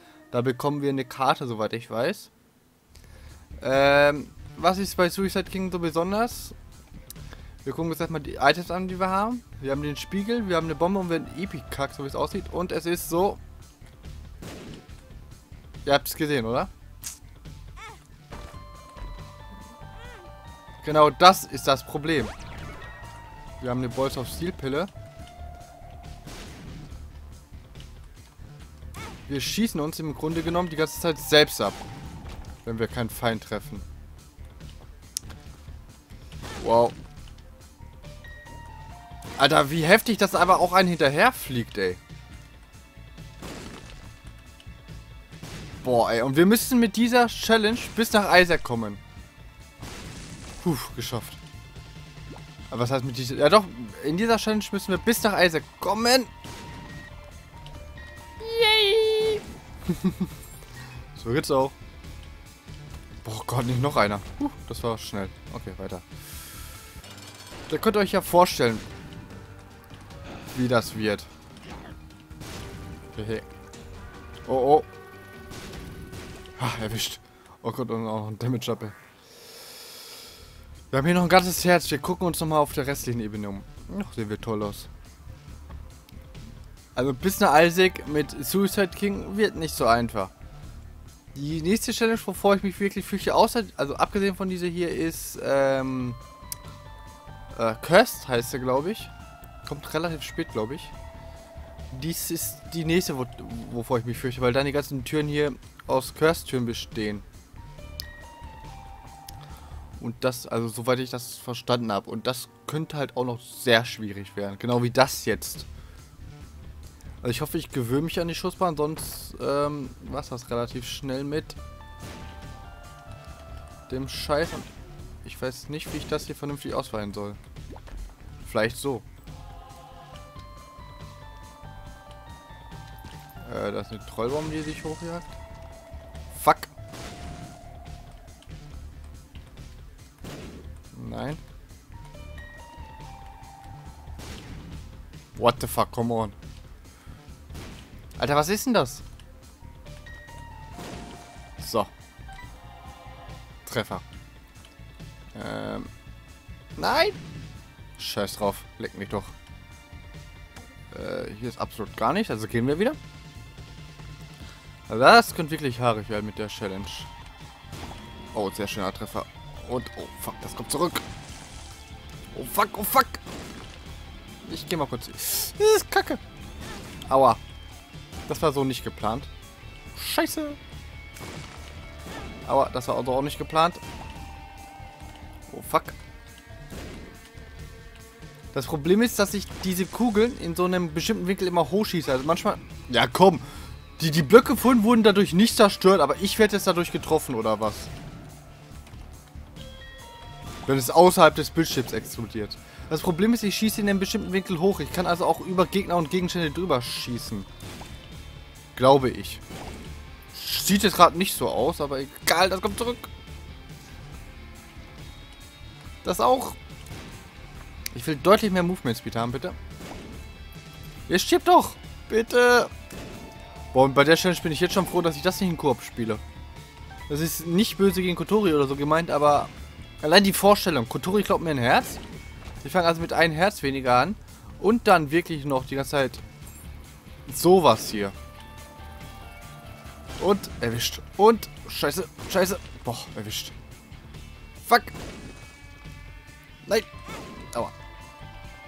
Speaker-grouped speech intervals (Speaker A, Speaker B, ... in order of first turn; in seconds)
Speaker A: 0.3-2.3, 3.6-6.5, 7.6-13.4, 15.8-16.7, 20.8-22.3, 23.6-24.9, 29.3-31.8, 32.6-33.8, 36.6-37.0, 39.4-42.0, 45.8-49.0, 50.6-51.4, 52.7-56.3, 58.4-60.3, 61.1-61.8, 63.2-66.0, 67.7-68.9, 70.5-71.3, 73.1-73.5, 74.4-74.9, 76.6-79.0, 80.9-84.9, 86.9-90.3, 91.3-96.2, 97.5-99.1, 99.6-100.9, 101.9-107.2, 110.0-115.7, 117.2-121.6, 123.9-127.4, 128.4-129.0, 133.4-135.3, 136.3-136.7, 140.9-141.4, 145.3-146.3, 148.2-149.0, 151.6-151.9, 153.6-154.0, 155.3-155.9, 156.8-157.2, 158.0-159.3, 160.9-163.0, 164.9-167.1, 168.3-171.0, 172.3-173.2, 174.4-176.2, 177.1-177.4, 178.3-179.3, 179.9-180.6, 182.4-183.8, 185.5-186.0, 188.5-197.9, 200.6-207.5, 208.7-209.4, 210.3-213.1, 216.0-216.6, 217.9-219.6, 221.1-222.7, 223.7-226.2, 227.1-232.0, 232.6-236.2, 237.2-238.2, 240.2-243.5, 244.6-244.9